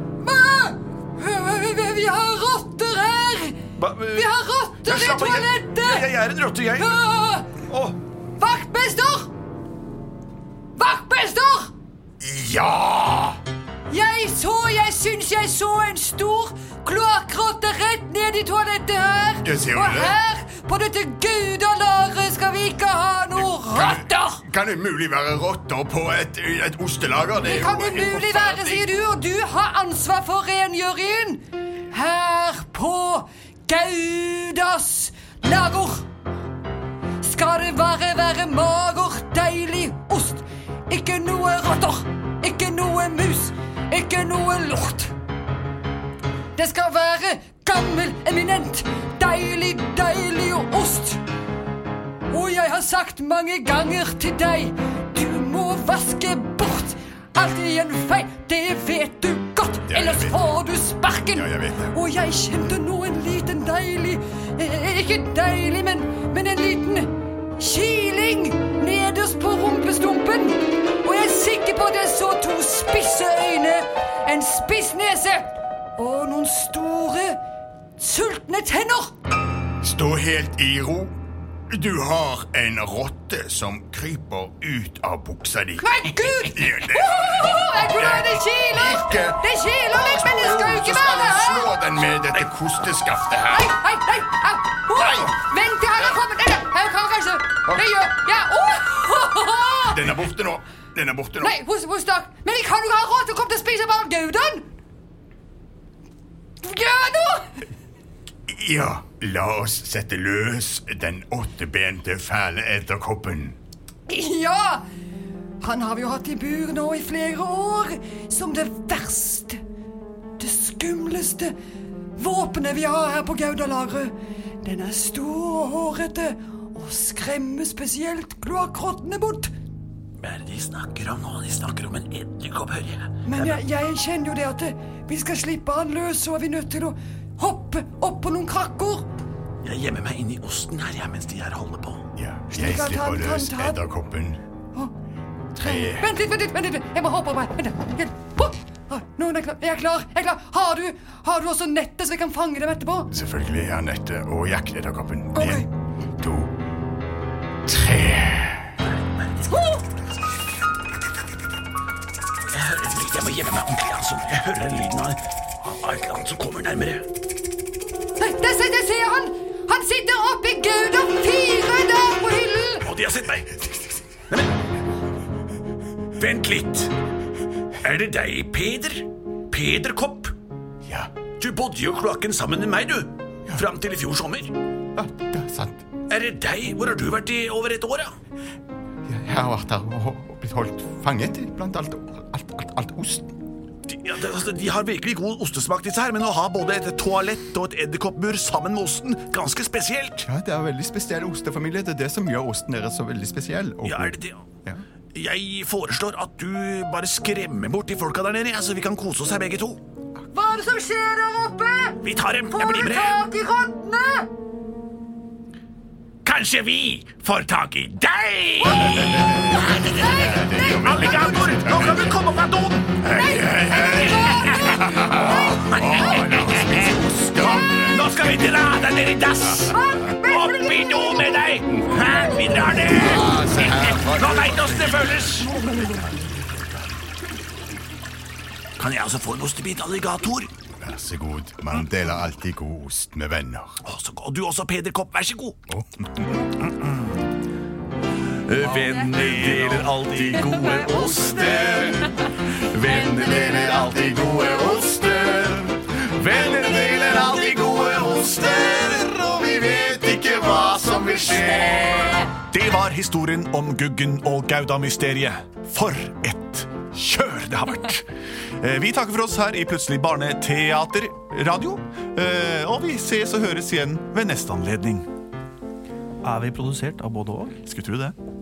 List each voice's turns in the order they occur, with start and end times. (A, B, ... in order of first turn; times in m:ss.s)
0:00.2-0:03.6 A
0:03.8-0:04.2 B
0:04.1-0:06.1 A
0:04.8-0:06.9 B
0:06.8-0:07.6 A
0:07.7-0:08.0 B
0:08.4-0:09.3 A
0:10.8-0:11.7 A
0:12.2-0:13.4 C
0:13.9-0:24.4 A
0:19.4-0:20.2 C
0:23.4-0:28.9 C
0:27.4-0:36.1 A
0:37.2-0:45.1 A
0:46.6-0:51.2 A
0:52.3-1:17.4 A
0:59.8-1:02.0 C
1:18.0-1:19.2 A
1:19.8-1:21.2 C
1:21.7-1:33.7 C
1:25.8-1:31.8 A
1:33.5-1:40.1 A
1:34.9-1:35.4 C
1:39.9-1:41.6 C
1:41.4-1:44.7 A
1:46.6-1:47.5 A
1:48.5-1:53.6 C
1:54.1-1:54.8 A
1:55.6-1:59.6 A
2:00.4-2:01.6 A
2:02.2-2:09.5 A
2:10.2-2:13.6 B
2:13.2-2:19.1 A
2:19.6-2:22.1 B
2:22.2-2:24.4 C
2:22.5-2:23.8 A
2:25.6-2:26.1 C
2:25.6-2:33.1 A
2:33.1-2:35.7 C
2:35.3-2:35.7 A
2:36.2-2:36.5 C
2:37.7-2:38.7 C
2:38.8-2:39.5 B
2:39.5-2:39.8 A
2:42.5-2:47.1 B
2:48.2-2:52.9 A
2:52.8-2:53.6 B
2:56.2-2:56.9 B
2:57.8-3:00.3 B
3:00.9-3:01.1 C
3:01.4-3:04.6 B
3:05.0-3:05.8 C
3:06.1-3:08.1 B
3:09.1-3:13.3 C
3:13.9-3:20.2 B
3:20.2-3:24.2 C
3:23.8-3:24.4 B
3:25.2-3:29.8 B
3:30.3-3:34.3 A
3:32.0-3:33.2 B
3:36.2-3:43.1 B
3:38.8-3:42.1 C
3:39.4-3:41.2 A
3:43.0-3:48.7 C
3:43.1-3:45.3 A
3:43.8-3:55.5 B
3:47.5-3:47.9 A
3:49.6-3:50.1 C
3:49.7-3:51.3 A
3:52.8-3:56.9 C
3:58.8-4:00.5 B
4:00.8-4:03.8 C
4:03.8-4:05.6 B
4:05.7-4:06.1 C
4:08.5-4:19.6 B
4:09.9-4:10.4 D
4:13.4-4:15.7 C
4:19.9-4:22.3 C
4:22.4-4:26.8 E
4:22.5-4:28.0 B
4:27.7-4:28.0 E
4:28.6-4:35.1 E
4:36.2-4:37.6 D
4:37.6-4:38.2 E